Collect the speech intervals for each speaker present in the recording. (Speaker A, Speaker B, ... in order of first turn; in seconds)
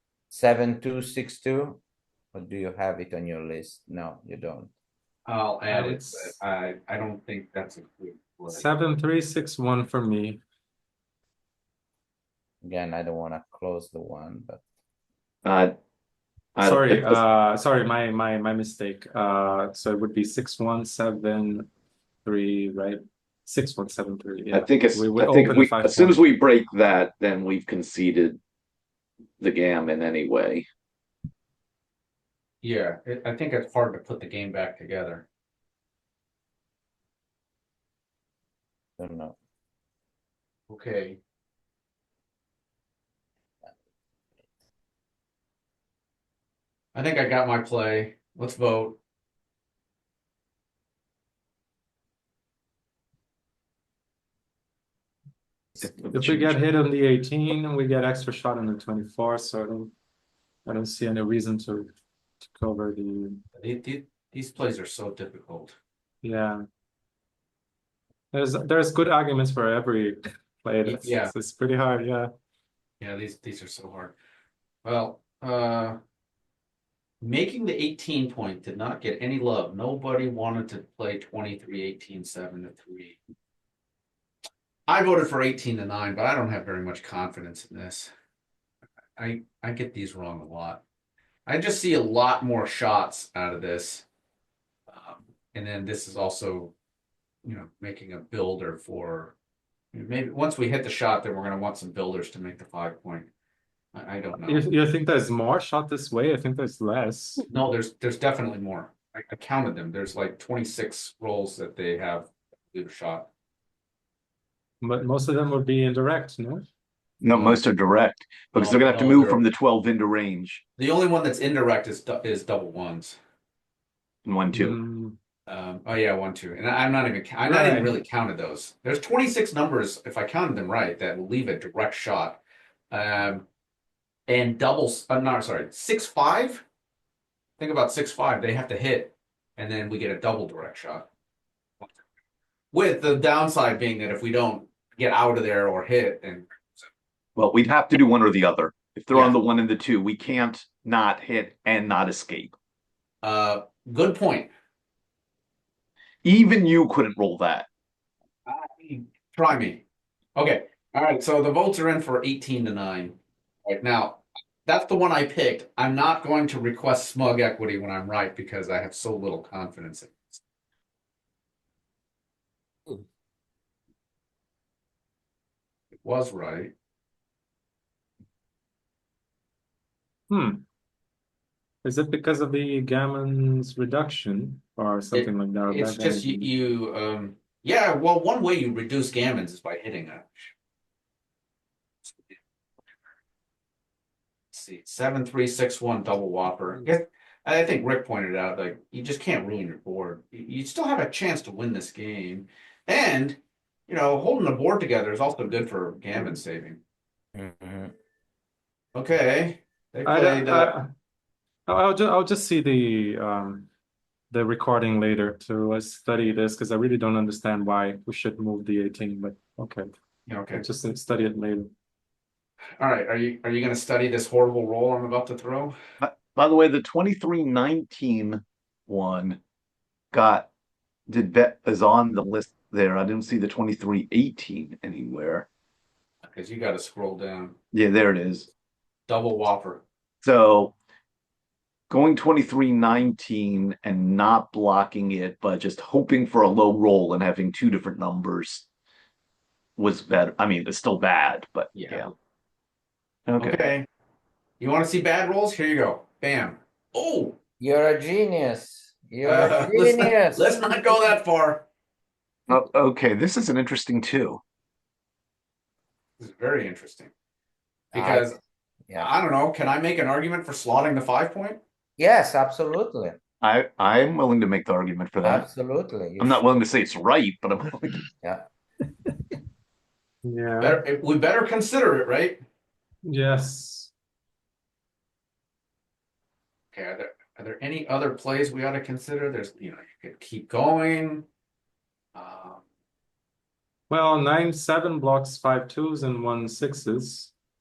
Speaker A: 0.3-1.8, 2.3-4.7, 12.6-14.6, 39.0-39.4, 207.3-207.9, 257.6-260.8, 267.9-268.3, 268.9-269.1, 272.0-273.2, 275.2-276.5, 278.2-278.5
Speaker B: 5.3-8.7, 32.6-35.3, 40.7-41.2, 47.0-49.0, 63.5-65.8, 70.8-71.3, 73.0-74.2, 74.8-76.0, 77.2-83.2, 84.9-88.1, 89.2-90.8, 91.5-94.1, 94.9-96.7, 97.4-99.3, 99.9-103.3, 103.9-104.7, 107.5-113.3, 118.5-119.4, 120.8-123.2, 125.5-133.5, 134.3-136.6, 137.6-141.1, 142.7-146.8, 153.2-154.5, 158.5-159.8, 160.4-170.4, 176.0-176.7, 185.1-190.5, 192.1-192.4, 194.5-206.8, 208.9-210.7, 220.3-220.6, 222.8-225.8, 236.2-237.6, 239.1-239.8, 251.7-252.1, 253.4-253.9, 254.6-257.4, 259.2-261.7, 266.2-267.1, 267.9-268.4, 269.0-271.6, 280.6-282.4, 286.7-291.3, 292.1-292.6
Speaker C: 5.7-6.4, 8.5-10.4, 16.6-21.7, 22.2-26.2, 56.1-59.9, 60.6-61.9, 62.5-63.4, 66.2-66.6, 68.3-72.3, 104.4-107.5, 114.8-116.7, 117.3-117.6, 124.5-125.2, 127.4-128.0, 180.3-180.7, 181.8-186.5, 210.1-210.9, 211.7-213.7, 214.3-219.9, 220.5-221.7, 280.2-280.8, 283.1-283.9, 293.9-297.3
Speaker D: 15.4-15.8, 16.6-17.2, 24.5-28.4, 29.4-30.7, 55.8-56.5, 117.2-120.6, 124.3-124.8, 147.4-152.5, 156.2-157.7, 226.0-229.4, 230.1-230.5, 231.1-235.5, 237.7-238.5, 240.2-240.8, 241.9-248.7, 249.8-252.1, 253.3-253.7, 262.5-264.4, 273.4-275.5, 276.2-278.0